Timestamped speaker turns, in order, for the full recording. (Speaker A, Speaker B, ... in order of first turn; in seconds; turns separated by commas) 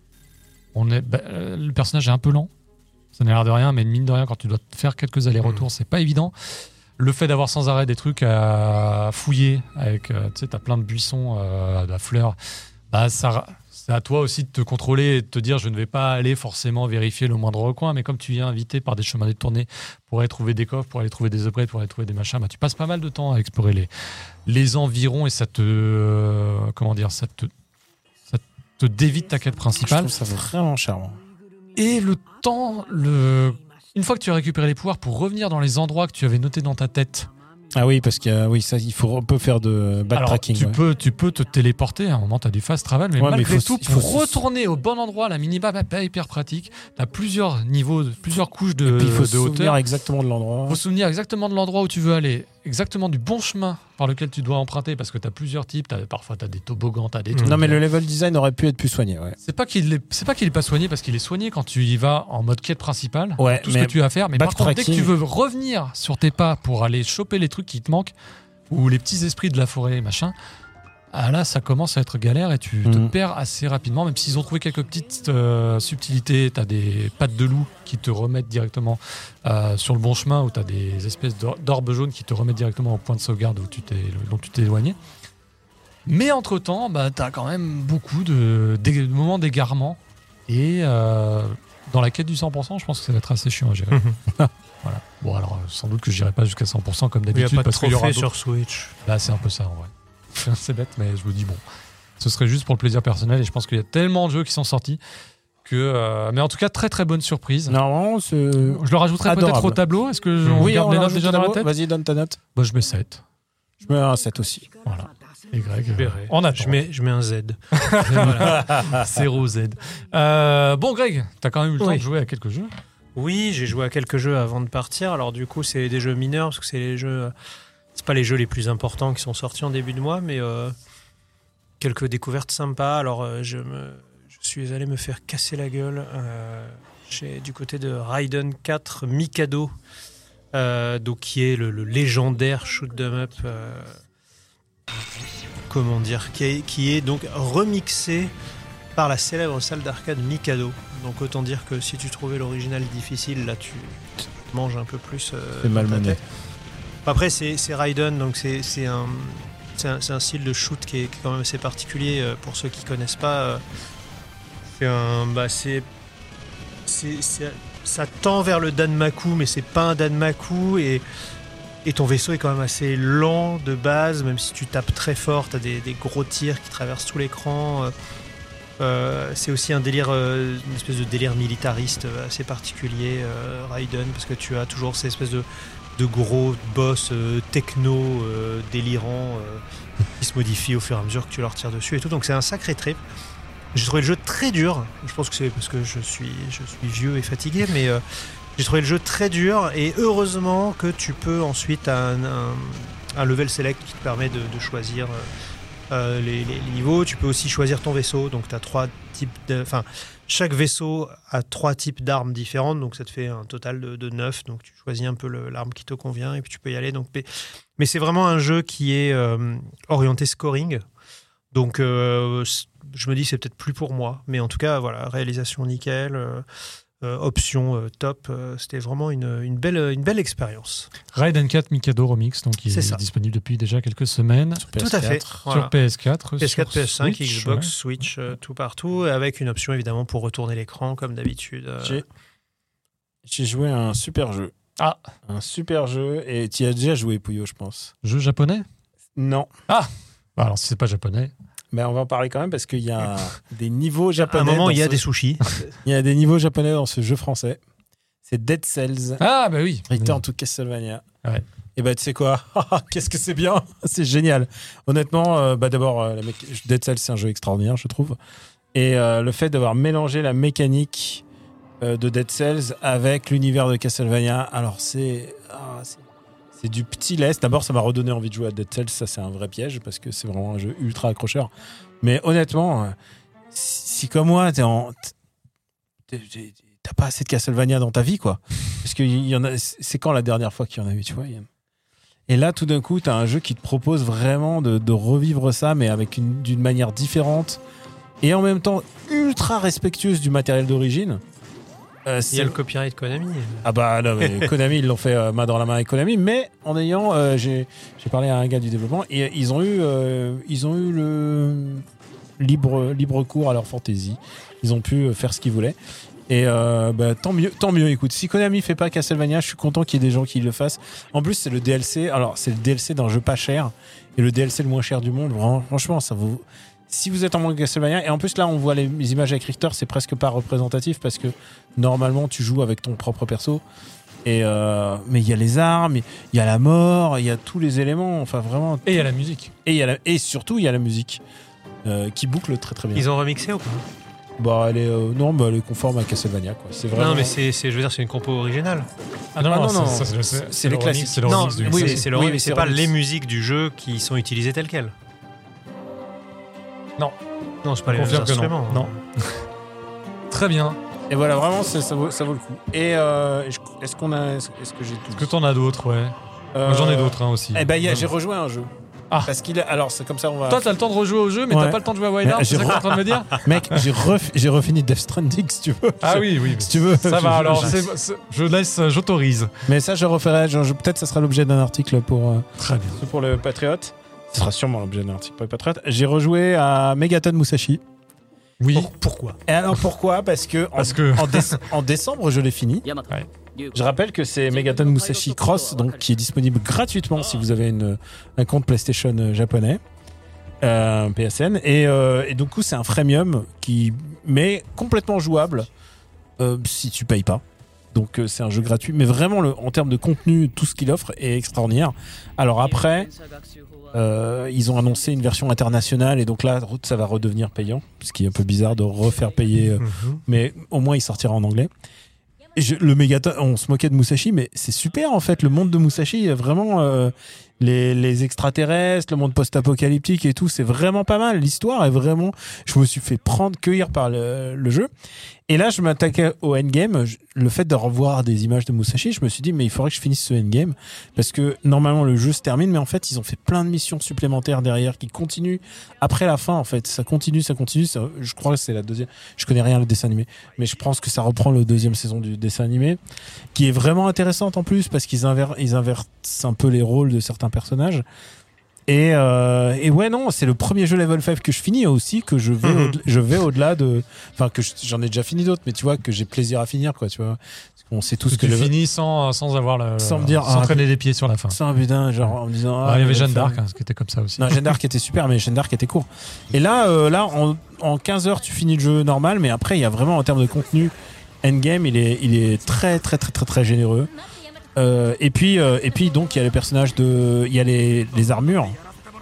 Speaker A: 0.7-2.5, Speaker A: 3.1-6.3, Speaker A: 7.0-12.4, Speaker A: 12.9-23.9, Speaker A: 24.4-27.5, Speaker A: 28.3-30.1, Speaker B: 29.8-31.2, Speaker A: 31.7-37.3, Speaker B: 37.7-40.8, Speaker A: 40.1-49.8, Speaker B: 43.2-44.4, Speaker B: 48.8-50.8, Speaker A: 50.7-57.8, Speaker B: 57.4-59.4, Speaker A: 59.4-68.1, Speaker B: 63.4-65.1, Speaker A: 68.7-70.3, Speaker A: 71.1-85.0, Speaker B: 72.8-73.1, Speaker A: 86.0-94.0, Speaker A: 94.8-98.3, Speaker C: 97.3-98.9, Speaker A: 99.0-101.6, Speaker A: 102.2-105.0, Speaker A: 105.6-107.8, Speaker B: 107.7-109.8, Speaker A: 108.6-111.7, Speaker B: 110.5-112.4, Speaker A: 112.5-113.2, Speaker B: 113.8-114.7, Speaker A: 114.8-116.8, Speaker C: 116.0-118.7, Speaker A: 117.7-122.7, Speaker B: 118.4-119.0, Speaker C: 123.2-127.3, Speaker C: 127.9-130.7, Speaker C: 131.8-139.7, Speaker C: 140.5-144.0, Speaker C: 145.7-148.3, Speaker C: 148.9-156.2, Speaker B: 155.6-156.2, Speaker C: 157.1-163.6, Speaker C: 164.8-165.8, Speaker C: 166.8-171.0, Speaker C: 171.8-177.9, Speaker C: 178.8-189.6, Speaker C: 190.2-193.0, Speaker C: 193.7-198.0, Speaker C: 198.6-205.3, Speaker C: 205.9-217.3, Speaker C: 217.8-220.8, Speaker C: 221.5-226.4, Speaker C: 227.0-230.9, Speaker A: 231.1-234.7, Speaker C: 232.7-233.0, Speaker B: 234.6-235.4, Speaker C: 234.8-235.7, Speaker A: 235.5-237.7, Speaker C: 236.4-242.0, Speaker B: 243.2-244.5, Speaker B: 245.3-247.9, Speaker A: 248.0-248.7, Speaker B: 249.2-249.5, Speaker A: 249.7-251.3, Speaker B: 251.7-255.0, Speaker C: 254.3-255.7, Speaker B: 255.8-257.6, Speaker B: 258.2-259.2, Speaker A: 259.2-260.2, Speaker B: 259.9-261.0, Speaker B: 261.8-268.1, Speaker B: 268.7-271.2, Speaker B: 271.8-276.0, Speaker B: 276.6-281.5, Speaker B: 282.0-282.9, Speaker B: 283.5-285.1, Speaker B: 286.1-291.5, Speaker B: 292.3-297.6, Speaker B: 298.2-301.2, Speaker B: 302.1-302.6, Speaker C: 302.3-303.6, Speaker B: 303.6-311.8, Speaker C: 304.2-304.5, Speaker B: 312.4-315.8, Speaker B: 316.3-333.6, Speaker B: 334.2-339.1, Speaker A: 338.9-339.5, Speaker B: 339.6-341.2, Speaker B: 341.8-343.1, Speaker C: 342.9-343.8, Speaker B: 344.4-347.4, Speaker C: 346.9-348.9, Speaker A: 349.3-352.1, Speaker B: 349.4-352.9, Speaker C: 351.2-354.9, Speaker C: 357.6-359.0, Speaker A: 357.9-359.4, Speaker A: 360.3-360.8, Speaker B: 361.1-365.3, Speaker A: 365.1-368.0, Speaker B: 366.5-368.7, Speaker B: 369.2-370.6, Speaker A: 370.5-373.9, Speaker B: 371.5-377.8, Speaker A: 376.0-379.5, Speaker C: 377.5-377.8, Speaker B: 379.6-387.8, Speaker A: 382.6-383.0, Speaker A: 388.6-388.9, Speaker C: 388.7-389.4, Speaker B: 389.5-392.9, Speaker A: 390.8-391.6, Speaker B: 393.7-399.8, Speaker B: 400.6-405.7, Speaker B: 406.4-413.1, Speaker B: 413.9-421.7, Speaker C: 419.8-420.2, Speaker B: 422.6-434.9, Speaker B: 435.5-453.0, Speaker B: 453.5-458.0, Speaker B: 458.9-468.7, Speaker C: 462.6-463.0, Speaker A: 468.3-471.6, Speaker B: 470.0-470.9, Speaker B: 471.5-473.6, Speaker A: 472.8-474.8, Speaker B: 474.4-484.1, Speaker B: 484.7-488.8